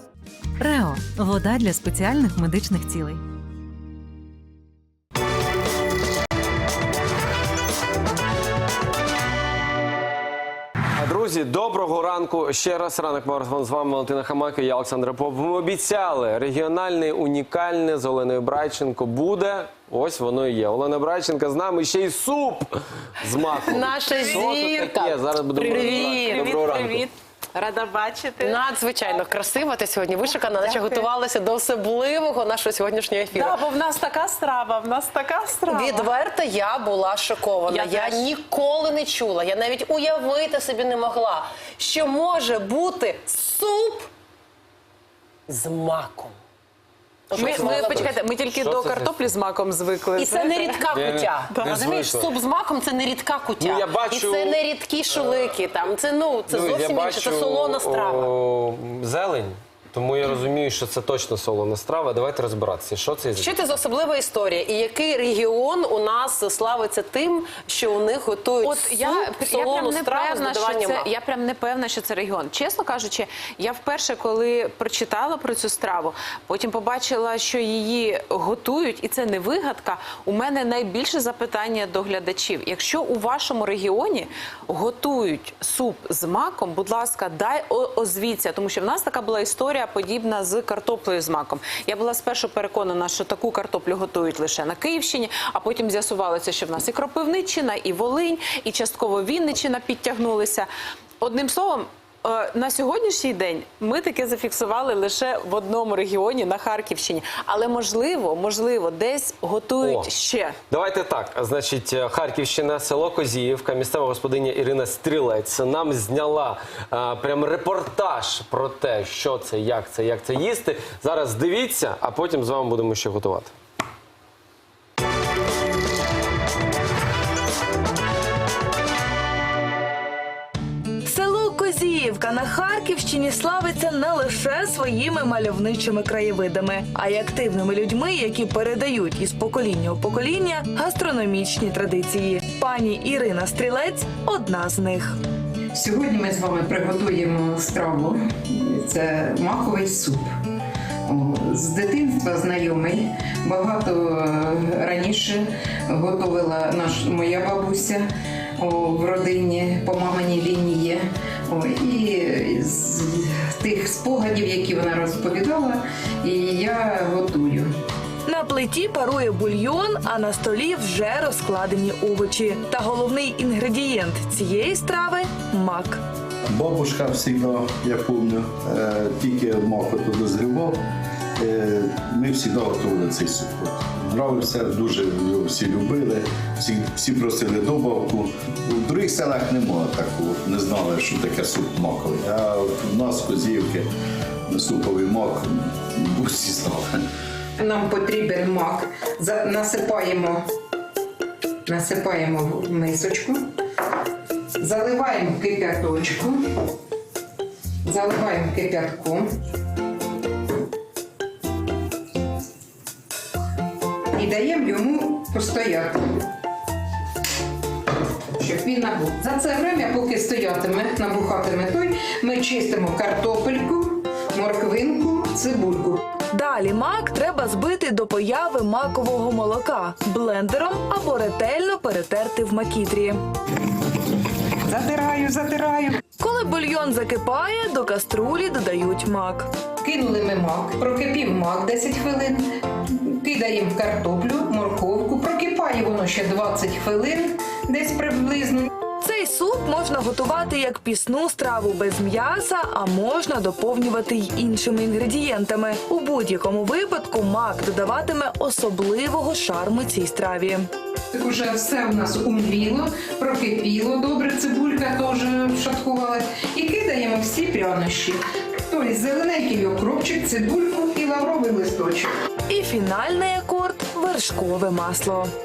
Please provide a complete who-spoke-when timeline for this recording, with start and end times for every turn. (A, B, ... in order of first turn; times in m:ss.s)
0:00.6-0:03.2 A
0:11.0-0:27.0 B
0:23.6-0:26.5 C
0:24.1-0:24.5 D
0:25.6-0:29.2 D
0:28.4-0:33.6 C
0:30.6-0:31.0 D
0:33.3-0:36.1 D
0:35.7-0:44.1 C
0:37.7-0:38.3 D
0:45.5-0:46.4 C
0:47.3-0:48.1 C
0:47.3-0:49.2 B
0:47.3-0:50.8 D
0:50.2-0:58.3 C
0:50.9-0:52.3 B
0:51.5-0:51.8 D
0:53.6-0:54.6 B
0:56.5-1:03.5 B
1:03.3-1:11.1 C
1:08.6-1:40.7 D
1:41.2-1:50.6 D
1:49.8-1:50.1 B
1:50.7-2:03.5 B
2:11.0-2:25.1 E
2:25.7-2:30.3 F
2:31.0-2:38.0 F
2:38.6-2:47.7 F
2:48.3-2:56.0 E
2:56.5-3:00.8 G
3:01.4-3:13.9 G
3:14.5-3:16.9 G
3:17.6-3:20.4 F
3:21.7-3:23.4 F
3:24.6-3:26.4 F
3:27.8-3:29.2 F
3:34.1-3:36.0 F
3:38.4-3:46.0 F
3:46.3-3:53.2 E
3:54.6-3:56.0 F
3:56.2-3:59.5 E
3:59.8-4:08.7 F
4:09.0-4:20.7 E
4:21.1-4:32.1 F
4:32.5-4:35.3 E